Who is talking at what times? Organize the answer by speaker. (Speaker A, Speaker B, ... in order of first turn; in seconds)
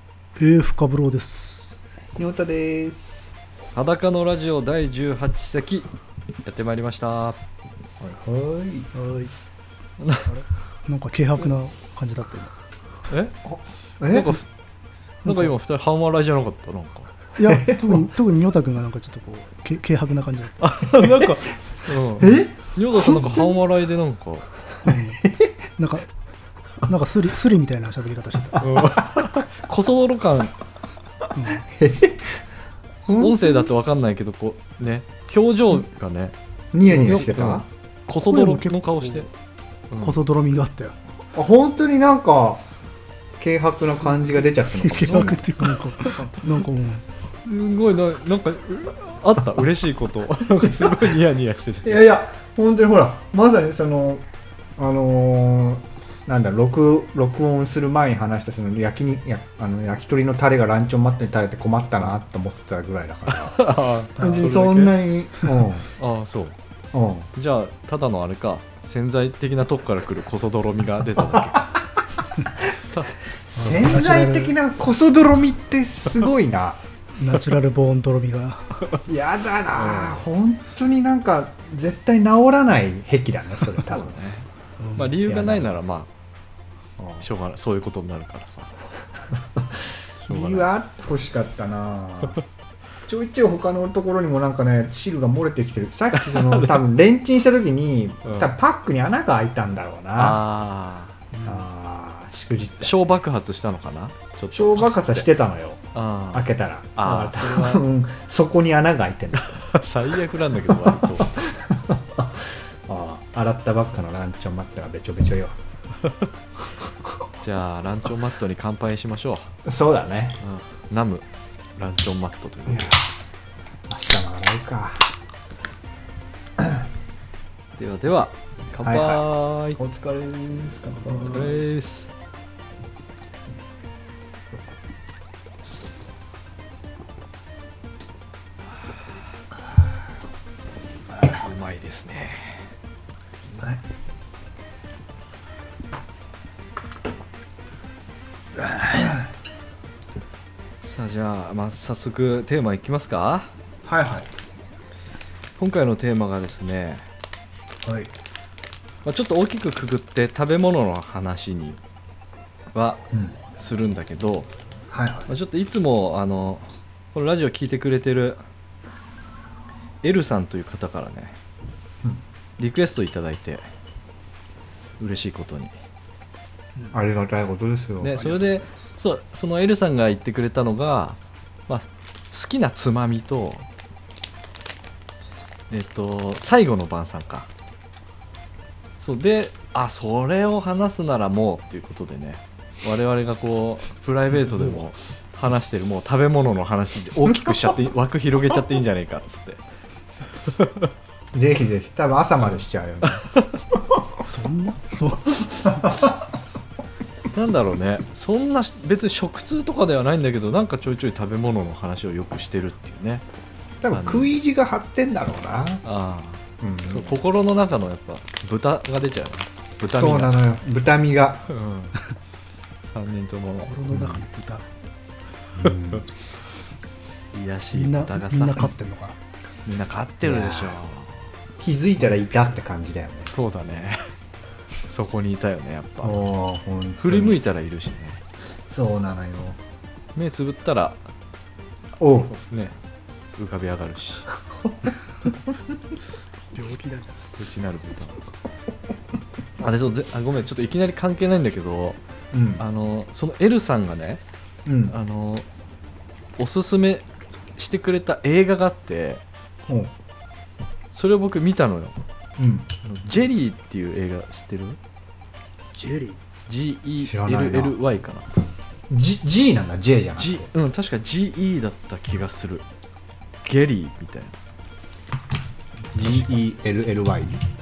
Speaker A: 0.4-1.8, 8.9-9.3, 10.3-12.5, 15.2-15.5, 17.4-20.6, 24.8-25.2, 25.8-26.1, 26.8-28.9, 31.3-31.6, 36.9-37.3, 38.2-39.3, 40.0-40.9, 44.6-47.0, 64.2-64.5, 73.6-74.5, 77.2-78.8, 84.8-85.2, 101.3-101.6, 131.1-131.6, 141.1-141.4, 204.2-205.7, 223.6-224.7, 227.7-229.2, 246.5-247.2, 265.7-266.2
Speaker B: 2.1-3.3, 8.0-8.9, 13.4-14.4, 17.5-18.0, 21.0-21.3, 22.2-23.5, 24.9-25.5, 28.8-29.2, 31.7-32.4, 33.0-33.7, 36.7-37.6, 41.3-42.6, 43.4-45.7, 50.6-51.0, 51.8-54.2, 54.8-65.9, 66.9-67.3, 71.3-71.8, 73.5-76.8, 79.0-84.2, 85.2-85.7, 87.0-87.3, 89.5-92.4, 93.0-100.4, 101.4-103.1, 104.5-109.7, 110.7-115.6, 119.6-120.4, 122.7-123.0, 123.9-125.1, 126.6-126.8, 128.8-131.6, 143.6-143.8, 148.8-149.1, 153.8-154.3, 157.8-158.1, 163.1-163.4, 164.9-165.3, 176.9-178.3, 197.3-197.6, 201.3-203.2, 205.7-206.1, 213.8-215.8, 216.6-217.2, 219.9-221.4, 223.9-224.2, 225.6-226.1, 230.2-230.8, 231.6-233.3, 236.0-237.4, 238.7-239.6, 242.0-242.3, 244.6-244.9, 252.3-252.6, 254.7-254.9, 259.7-259.9, 262.4-262.7, 267.0-267.8, 268.9-270.5, 275.9-277.4
Speaker C: 3.7-5.9, 6.4-7.4, 10.0-10.3, 13.1-13.3, 14.1-14.5, 15.2-17.1, 20.6-24.4, 28.6-30.5, 33.2-39.3, 39.9-40.2, 47.4-52.2, 63.3-65.0, 66.0-66.6, 67.3-71.7, 72.8-73.1, 79.7-80.2, 83.8-86.1, 87.2-88.7, 90.2-90.8, 96.1-96.8, 98.2-98.5, 100.2-101.1, 102.8-105.3, 105.9-107.8, 109.4-111.4, 117.4-119.5, 120.4-121.2, 121.8-123.0, 127.8-129.8, 131.2-132.1, 141.3-142.7, 150.8-153.5, 155.6-157.1, 159.0-161.8, 162.7-163.0, 163.5-164.5, 165.3-168.4, 170.0-171.4, 172.6-173.7, 175.0-175.7, 178.0-183.7, 185.7-187.5, 189.0-199.6, 200.4-200.9, 202.4-203.6, 207.3-213.2, 213.9-214.3, 215.8-220.4, 221.5-222.0, 222.8-223.7, 225.6-225.9, 227.3-228.7, 229.7-231.2, 233.3-234.1, 234.8-236.3, 237.0-238.2, 240.2-241.0, 242.2-242.7, 243.4-244.3, 247.4-248.2, 249.6-252.0, 252.6-254.2, 254.9-255.4, 256.4-257.0, 257.6-259.2, 260.9-262.0, 262.8-264.8, 266.5-268.3, 270.2-272.6, 273.4-274.4